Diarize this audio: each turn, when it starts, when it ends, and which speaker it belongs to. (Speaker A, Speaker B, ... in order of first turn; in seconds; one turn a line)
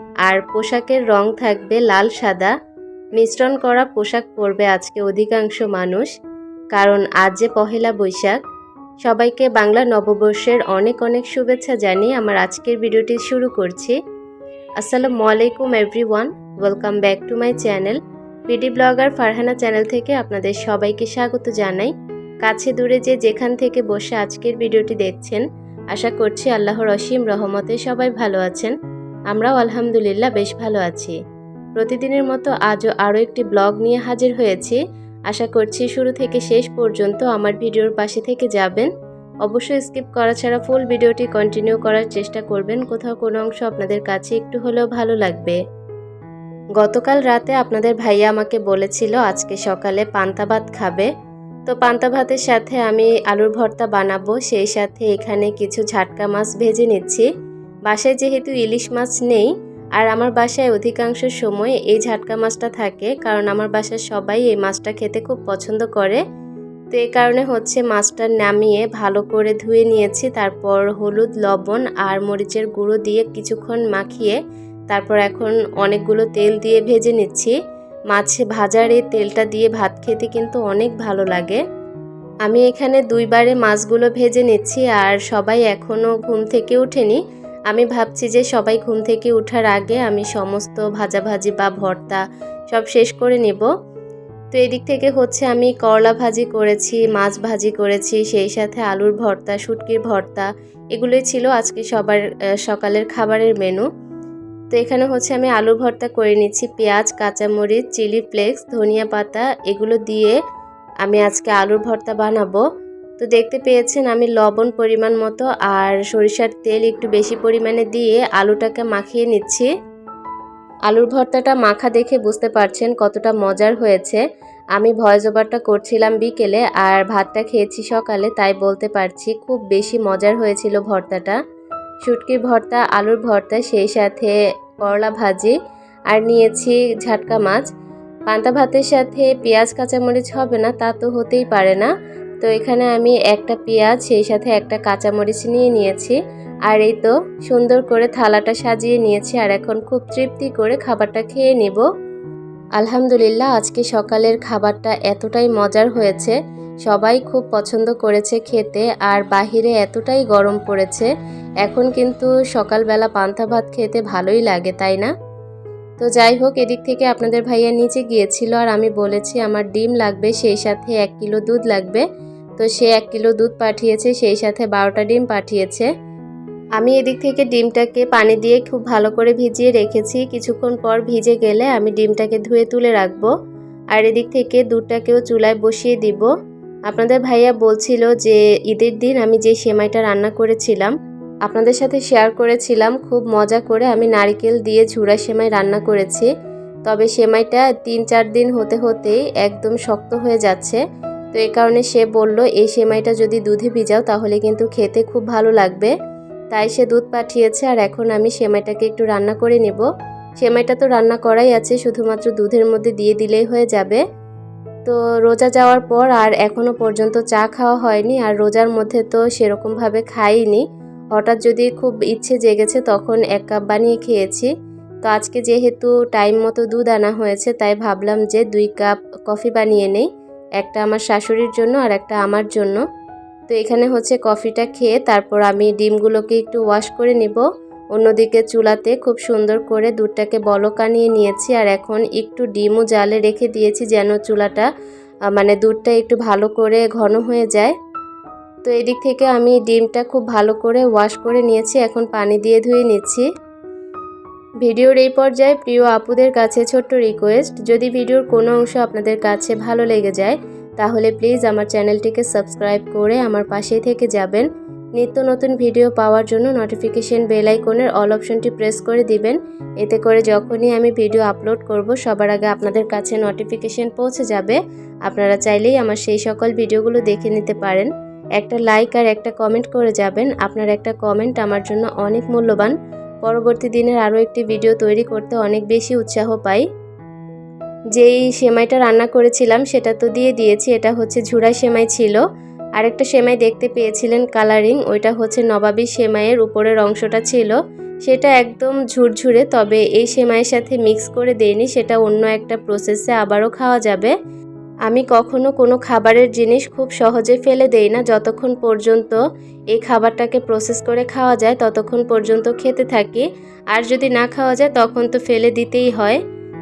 Speaker A: 0.2-2.5
Speaker A: 3.1-6.1
Speaker A: 6.7-8.4
Speaker A: 9.0-13.9
Speaker A: 14.8-18.0
Speaker A: 18.5-21.9
Speaker A: 22.4-28.7
Speaker A: 29.3-31.2
Speaker A: 31.8-38.9
Speaker A: 39.4-45.6
Speaker A: 46.8-51.1
Speaker A: 51.6-57.3
Speaker A: 57.9-66.2
Speaker A: 66.9-74.4
Speaker A: 74.9-77.5
Speaker A: 78.1-81.6
Speaker A: 82.4-93.7
Speaker A: 94.5-103.8
Speaker A: 104.7-110.3
Speaker A: 111.0-112.6
Speaker A: 113.2-119.7
Speaker A: 120.9-124.2
Speaker A: 124.8-131.4
Speaker A: 132.0-135.5
Speaker A: 136.1-137.7
Speaker A: 138.3-151.8
Speaker A: 152.8-161.1
Speaker A: 161.6-165.1
Speaker A: 166.0-172.0
Speaker A: 172.6-175.9
Speaker A: 176.8-183.3
Speaker A: 183.9-186.3
Speaker A: 186.9-190.9
Speaker A: 191.4-196.3
Speaker A: 196.8-200.8
Speaker A: 201.3-205.9
Speaker A: 206.5-209.8
Speaker A: 210.4-214.0
Speaker A: 214.8-224.5
Speaker A: 225.0-230.1
Speaker A: 230.6-232.8
Speaker A: 233.5-237.4
Speaker A: 237.9-244.7
Speaker A: 245.3-247.7
Speaker A: 248.6-253.2
Speaker A: 254.6-286.6
Speaker A: 287.9-292.2
Speaker A: 292.8-304.1
Speaker A: 304.9-309.2
Speaker A: 309.7-316.2